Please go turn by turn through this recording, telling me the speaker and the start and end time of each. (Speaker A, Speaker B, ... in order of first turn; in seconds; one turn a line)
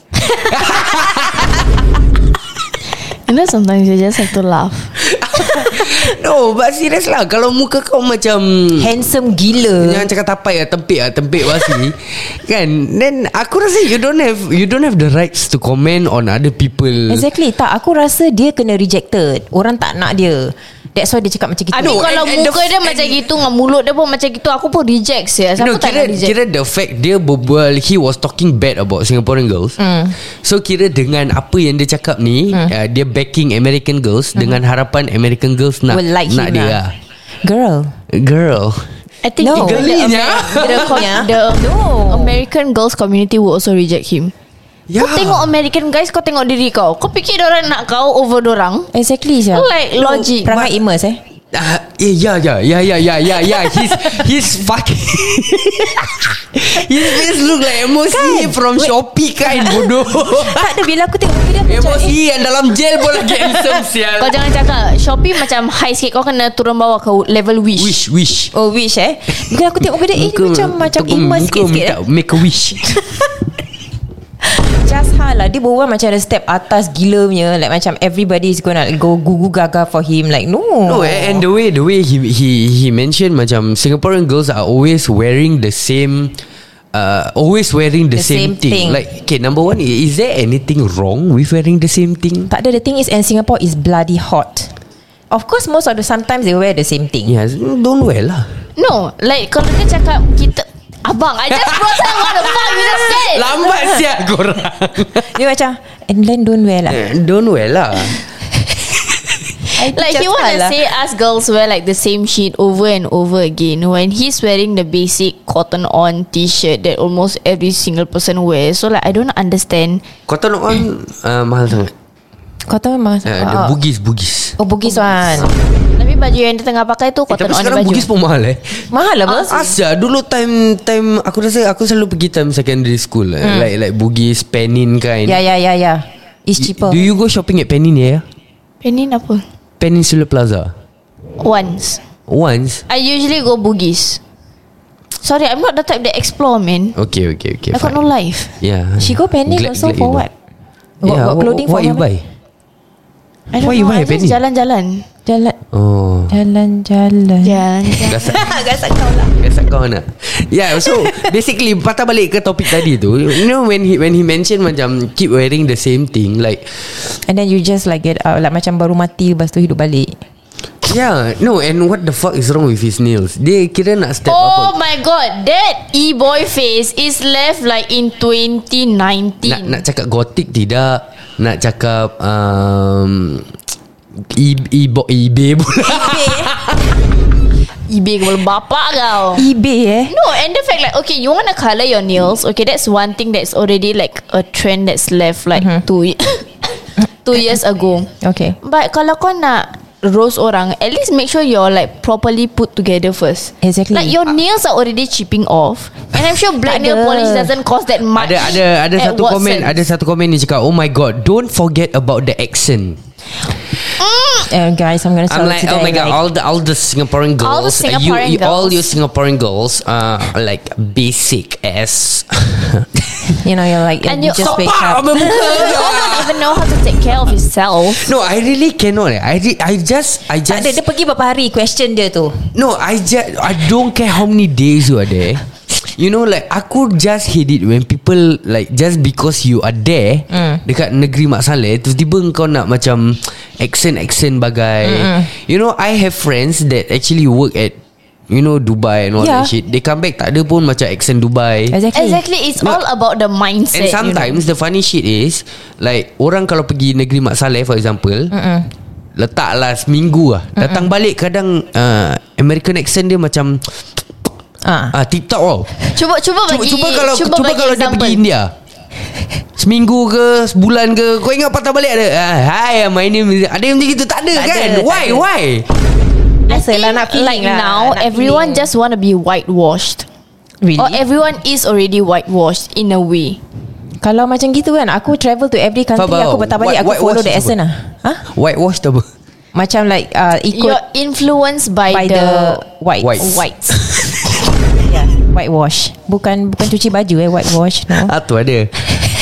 Speaker A: 0.4-1.6
Speaker B: 3.3-4.9
Speaker A: 5.0-8.9
Speaker C: 8.8-10.1
Speaker A: 9.8-17.2
Speaker C: 17.1-22.0
Speaker B: 21.7-26.4
Speaker A: 21.8-23.3
Speaker A: 25.6-36.9
Speaker C: 29.8-30.1
Speaker C: 35.9-36.8
Speaker C: 37.4-38.0
Speaker A: 38.1-38.9
Speaker B: 39.2-44.3
Speaker C: 39.4-39.9
Speaker A: 39.5-41.0
Speaker C: 40.5-42.3
Speaker A: 44.9-45.5
Speaker B: 45.0-48.9
Speaker C: 48.9-51.2
Speaker B: 49.5-50.7
Speaker A: 51.5-60.7
Speaker C: 58.1-58.9
Speaker C: 59.5-62.1
Speaker A: 61.7-64.4
Speaker B: 64.2-68.0
Speaker A: 67.8-68.5
Speaker C: 68.5-72.0
Speaker A: 70.1-73.1
Speaker C: 74.4-81.4
Speaker A: 80.8-86.4
Speaker A: 86.9-92.5
Speaker C: 88.1-89.0
Speaker C: 92.5-94.7
Speaker C: 95.3-97.3
Speaker A: 97.3-98.5
Speaker B: 98.8-103.6
Speaker A: 101.5-105.3
Speaker C: 105.2-107.0
Speaker A: 106.9-108.2
Speaker C: 109.7-110.8
Speaker B: 109.8-120.0
Speaker A: 120.3-121.9
Speaker C: 122.7-123.8
Speaker A: 123.2-124.5
Speaker C: 124.6-125.5
Speaker B: 126.0-128.1
Speaker A: 127.3-128.9
Speaker C: 128.9-129.6
Speaker B: 129.3-129.6
Speaker A: 129.4-135.4
Speaker C: 133.4-133.7
Speaker C: 135.2-137.0
Speaker A: 136.6-138.2
Speaker B: 138.8-139.4
Speaker A: 139.8-140.7
Speaker B: 141.4-142.0
Speaker A: 142.3-142.8
Speaker B: 142.9-144.2
Speaker B: 145.2-146.9
Speaker A: 146.9-148.0
Speaker B: 147.7-148.5
Speaker A: 148.6-150.2
Speaker C: 149.0-150.3
Speaker C: 151.0-152.0
Speaker A: 151.0-152.2
Speaker B: 153.5-155.1
Speaker A: 153.6-154.4
Speaker C: 155.2-155.6
Speaker A: 155.7-156.3
Speaker C: 156.3-159.3
Speaker B: 157.4-158.3
Speaker A: 158.1-158.5
Speaker A: 159.4-166.8
Speaker C: 160.8-161.3
Speaker C: 167.2-170.2
Speaker A: 170.8-174.7
Speaker B: 174.2-179.8
Speaker A: 179.4-183.5
Speaker A: 184.2-186.8
Speaker C: 185.8-186.5
Speaker B: 187.9-189.4
Speaker C: 189.3-190.1
Speaker B: 190.1-198.1
Speaker C: 198.2-198.6
Speaker B: 198.6-209.8
Speaker C: 203.6-204.2
Speaker C: 206.6-207.5
Speaker A: 208.1-213.0
Speaker B: 214.0-214.4
Speaker C: 214.4-216.2
Speaker A: 215.3-223.3
Speaker B: 217.4-218.9
Speaker C: 223.4-225.6
Speaker B: 224.1-228.1
Speaker A: 224.4-226.6
Speaker A: 227.9-230.8
Speaker C: 230.5-232.5
Speaker A: 232.5-247.8
Speaker C: 240.3-240.6
Speaker C: 244.8-245.3
Speaker A: 248.3-251.8
Speaker C: 249.2-249.5
Speaker C: 251.7-252.2
Speaker B: 251.9-254.4
Speaker A: 253.7-258.3
Speaker C: 258.3-258.7
Speaker A: 259.1-263.8
Speaker C: 260.6-260.9
Speaker C: 264.6-264.9
Speaker A: 264.9-265.7
Speaker B: 265.9-268.2
Speaker A: 266.5-268.5
Speaker A: 269.6-275.7
Speaker C: 274.3-275.2
Speaker C: 276.5-278.6
Speaker B: 276.5-280.1
Speaker C: 280.6-281.0
Speaker B: 280.8-283.4
Speaker C: 284.0-288.2
Speaker A: 285.9-287.5
Speaker A: 288.2-289.1
Speaker C: 289.5-290.8
Speaker B: 290.5-292.6
Speaker C: 291.9-293.4
Speaker A: 293.0-294.1
Speaker B: 293.2-293.8
Speaker C: 294.9-298.1
Speaker A: 297.9-298.7